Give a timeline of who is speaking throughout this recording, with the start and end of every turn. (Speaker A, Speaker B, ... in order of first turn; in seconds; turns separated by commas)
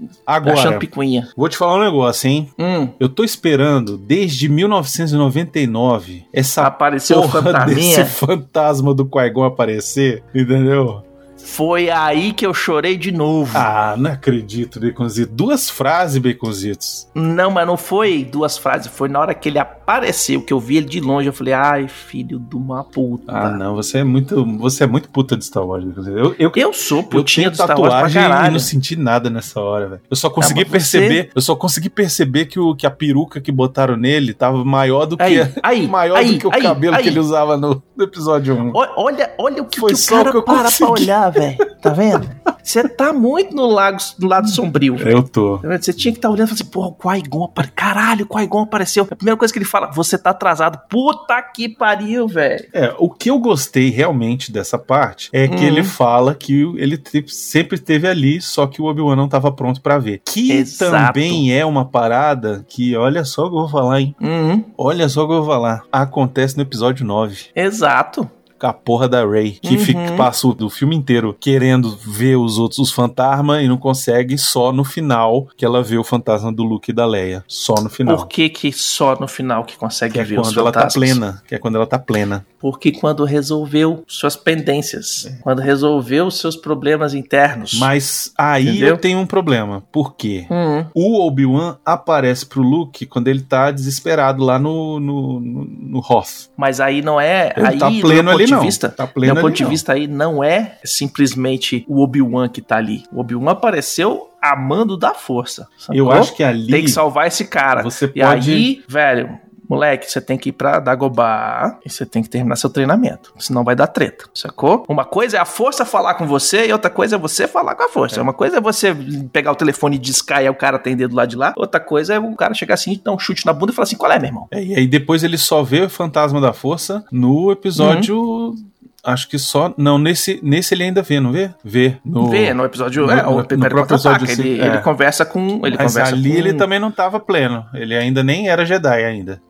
Speaker A: 0.3-11.0, Speaker B: 0.4-1.3, Speaker B: 2.6-3.0, Speaker B: 6.6-8.2, Speaker B: 11.4-13.7, Speaker A: 13.5-17.1, Speaker B: 17.1-23.6, Speaker A: 23.3-38.8, Speaker B: 26.5-28.7, Speaker B: 30.4-31.2, Speaker B: 35.2-37.2, Speaker B: 38.7-52.7, Speaker A: 39.7-42.2, Speaker A: 45.0-45.6, Speaker A: 52.7-64.2, Speaker B: 55.5-55.9, Speaker B: 60.5-61.4, Speaker B: 64.2-64.7, Speaker A: 64.8-67.5, Speaker B: 67.5-68.3, Speaker A: 68.6-78.3, Speaker B: 69.6-70.3, Speaker B: 78.0-81.2, Speaker A: 80.1-82.4, Speaker B: 82.6-87.9, Speaker A: 87.7-96.5, Speaker B: 88.6-89.0, Speaker B: 90.5-90.9, Speaker B: 96.6-124.5, Speaker A: 97.5-99.8, Speaker A: 105.9-107.0, Speaker A: 107.8-108.7, Speaker A: 124.5-134.9, Speaker B: 127.8-128.1, Speaker B: 132.2-136.7, Speaker A: 135.6-139.4